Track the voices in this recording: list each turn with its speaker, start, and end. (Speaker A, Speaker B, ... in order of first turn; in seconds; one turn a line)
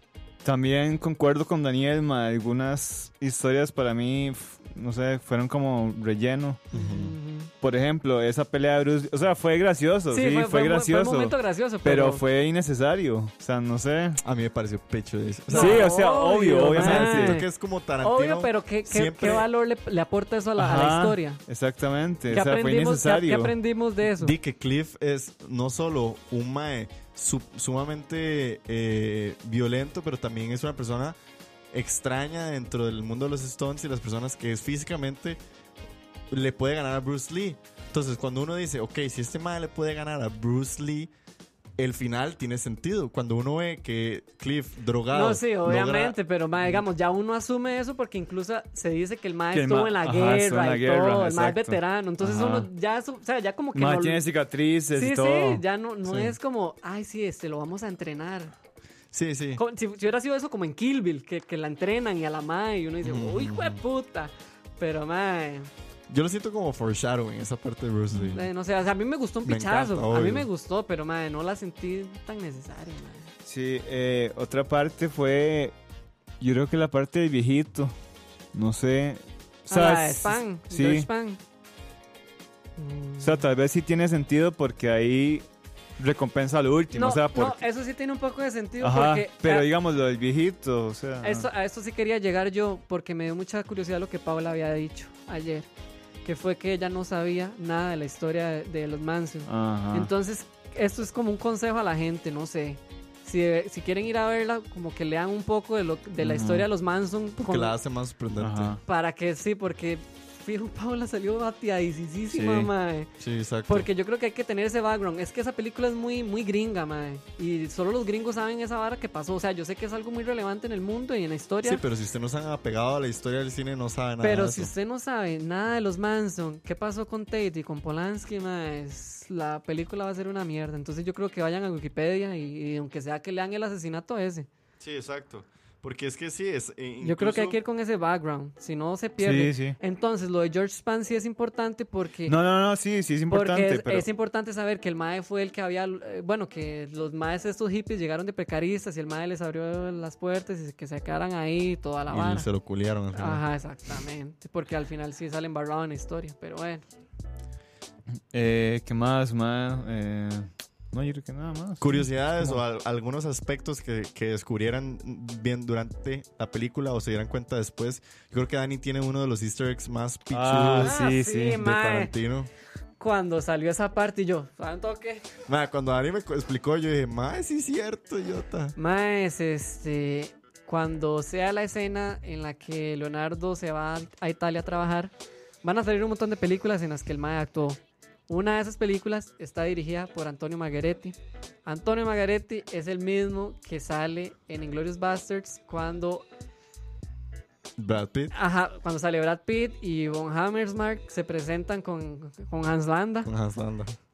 Speaker A: 0.4-6.6
Speaker B: 6.7-7.1
Speaker C: 6.7-7.5
Speaker A: 7.6-14.2
Speaker C: 10.1-12.2
Speaker B: 14.2-15.9
Speaker C: 15.5-17.4
Speaker A: 15.5-17.4
Speaker B: 16.7-19.5
Speaker C: 18.0-21.4
Speaker A: 20.6-23.6
Speaker C: 22.3-24.4
Speaker B: 24.1-31.2
Speaker B: 31.7-35.4
Speaker B: 36.3-41.1
Speaker B: 41.8-46.2
Speaker C: 45.1-54.2
Speaker A: 49.5-52.7
Speaker A: 53.7-55.6
Speaker C: 54.9-58.5
Speaker B: 56.1-56.4
Speaker B: 59.1-59.6
Speaker C: 59.6-65.7
Speaker B: 63.0-63.8
Speaker B: 66.1-68.5
Speaker C: 68.3-73.3
Speaker B: 69.4-70.5
Speaker A: 73.4-75.7
Speaker A: 76.4-77.9
Speaker A: 78.5-81.1
Speaker C: 79.7-81.4
Speaker C: 82.8-83.4
Speaker A: 83.2-85.5
Speaker A: 86.0-87.7
Speaker C: 86.9-89.7
Speaker A: 88.8-91.5
Speaker C: 91.2-95.7
Speaker C: 96.2-107.7
Speaker A: 99.5-100.1
Speaker A: 106.2-106.7
Speaker B: 107.4-108.8
Speaker A: 108.4-108.8
Speaker C: 108.8-113.1
Speaker A: 112.3-112.7
Speaker B: 113.2-113.9
Speaker C: 113.7-121.8
Speaker B: 121.6-124.7
Speaker C: 124.2-134.5
Speaker B: 134.8-137.6
Speaker C: 137.0-142.4
Speaker A: 139.2-139.8
Speaker A: 142.3-144.1
Speaker C: 143.3-152.5
Speaker B: 152.1-153.4
Speaker C: 153.1-156.8
Speaker A: 158.3-162.6
Speaker B: 161.8-171.0
Speaker A: 170.3-171.6
Speaker C: 170.8-172.1
Speaker B: 171.5-172.5
Speaker C: 173.0-175.3
Speaker B: 175.5-178.8
Speaker C: 178.8-185.1
Speaker C: 185.6-196.3
Speaker B: 197.8-198.3
Speaker C: 198.3-203.3
Speaker B: 203.2-204.0